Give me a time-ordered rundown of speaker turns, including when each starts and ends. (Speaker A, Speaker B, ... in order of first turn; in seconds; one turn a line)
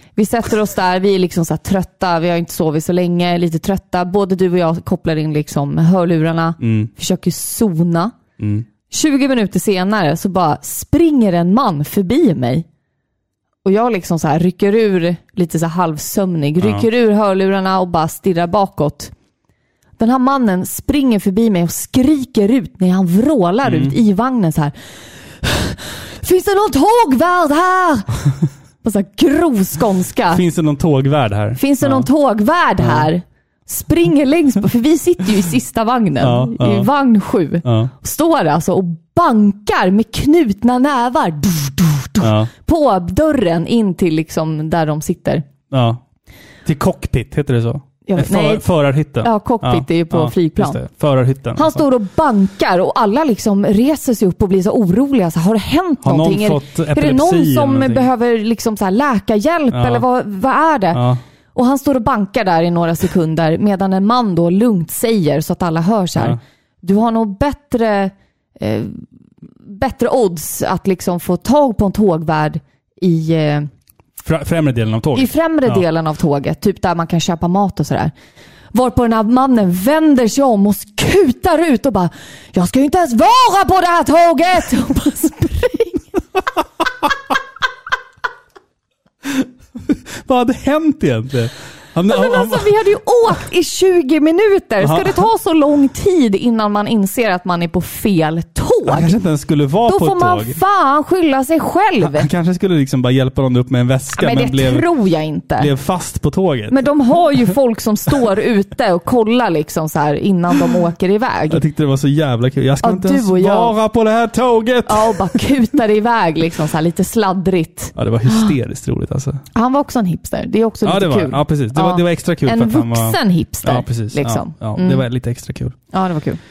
Speaker A: 0.1-8.2
Speaker B: 6.6-6.9
Speaker B: 8.4-8.7
Speaker A: 8.9-12.7
Speaker A: 13.6-19.1
Speaker A: 20.0-24.7
Speaker B: 23.6-23.9
Speaker A: 25.4-28.1
Speaker A: 28.8-30.4
Speaker B: 30.3-32.0
Speaker A: 31.6-45.5
Speaker B: 32.8-33.1
Speaker B: 36.2-36.9
Speaker B: 37.6-37.9
Speaker B: 42.2-42.5
Speaker B: 45.7-46.0
Speaker B: 46.6-51.8
Speaker A: 48.0-48.6
Speaker A: 49.2-50.8
Speaker A: 51.5-61.0
Speaker B: 56.0-58.0
Speaker B: 59.7-60.0
Speaker B: 60.9-61.2
Speaker A: 61.5-69.0
Speaker A: 69.6-73.7
Speaker B: 74.2-75.8
Speaker A: 75.1-78.1
Speaker A: 78.7-86.0
Speaker B: 90.2-92.7
Speaker A: 92.1-99.2
Speaker B: 94.8-95.2
Speaker B: 98.8-100.6
Speaker A: 99.8-102.3
Speaker B: 102.0-104.8
Speaker A: 104.1-105.7
Speaker B: 105.6-106.8
Speaker A: 106.7-111.6
Speaker B: 111.5-115.3
Speaker A: 112.8-113.7
Speaker A: 114.8-118.5
Speaker B: 118.0-119.4
Speaker A: 119.5-125.0
Speaker B: 120.8-125.8
Speaker A: 125.9-126.4